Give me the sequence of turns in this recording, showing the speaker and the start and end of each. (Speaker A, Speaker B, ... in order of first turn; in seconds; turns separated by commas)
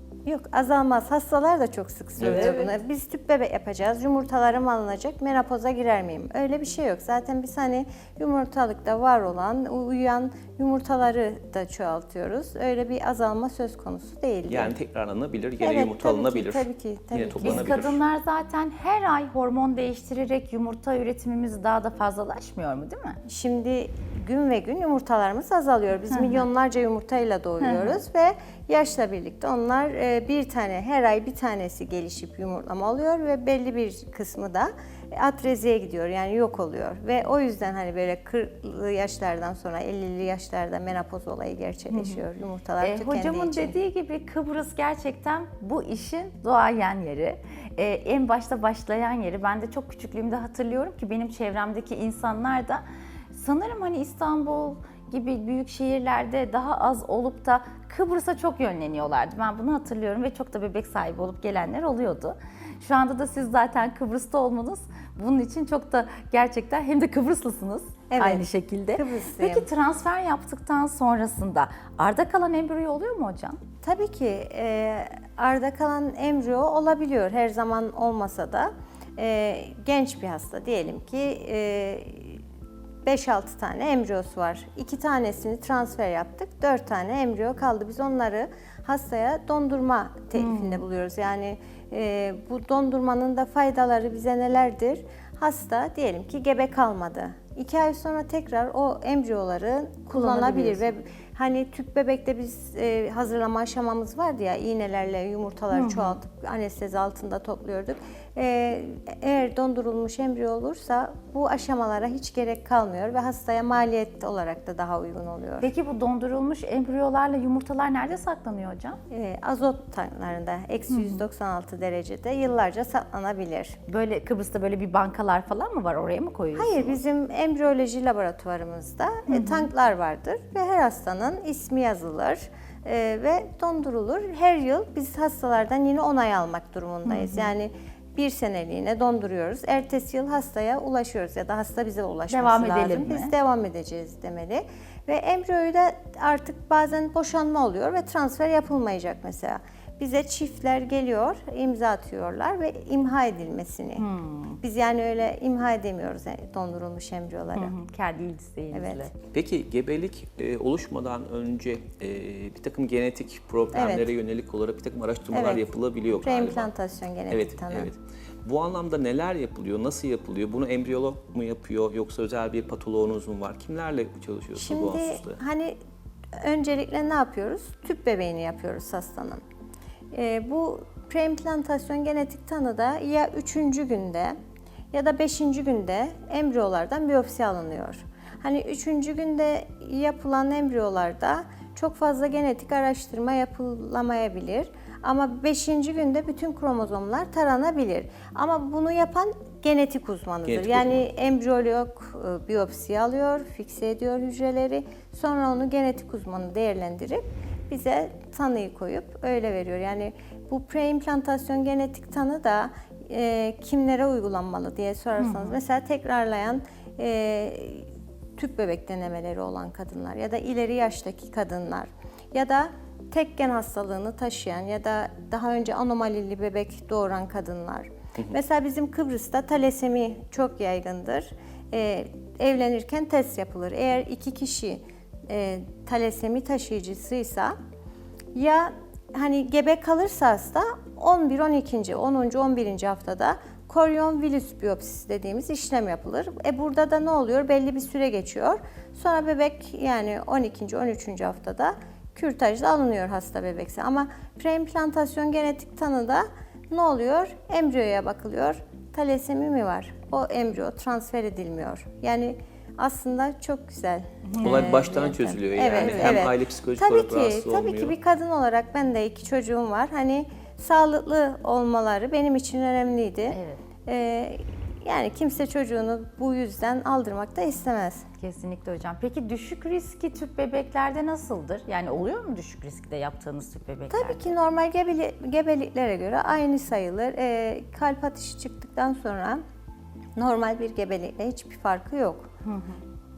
Speaker A: 0.2-14.8, Speaker B: 2.2-2.7, Speaker C: 14.5-18.0, Speaker A: 15.6-17.9, Speaker B: 17.4-23.2, Speaker A: 23.3-43.8, Speaker B: 26.1-26.4, Speaker B: 27.6-28.0, Speaker B: 41.9-42.2, Speaker B: 42.8-73.6, Speaker A: 68.1-69.7, Speaker A: 73.8-82.4, Speaker A: 83.0-115.7, Speaker B: 90.3-90.8, Speaker B: 100.1-100.9, Speaker B: 105.7-106.2, Speaker B: 115.6-119.0, Speaker A: 119.1-123.8, Speaker B: 120.9-121.2, Speaker B: 123.9-127.0, Speaker A: 126.5-154.1, Speaker B: 129.3-129.7, Speaker B: 137.1-137.5, Speaker B: 142.3-143.3, Speaker B: 154.0-154.6, Speaker A: 154.6-157.8, Speaker B: 157.6-159.1, Speaker A: 158.7-159.1, Speaker C: 159.3-166.7, Speaker A: 163.7-164.1, Speaker A: 165.3-167.9, Speaker C: 167.3-175.4, Speaker A: 174.6-175.8, Speaker A: 176.4-179.4, Speaker A: 180.1-184.4, Speaker A: 184.9-237.5, Speaker C: 200.5-201.1, Speaker B: 215.2-215.6, Speaker A: 238.3-278.1, Speaker B: 264.2-264.7, Speaker C: 264.4-267.9, Speaker B: 265.7-266.2, Speaker B: 273.3-273.6, Speaker B: 278.2-284.3, Speaker A: 283.9-289.4, Speaker A: 290.2-292.3, Speaker B: 292.4-292.8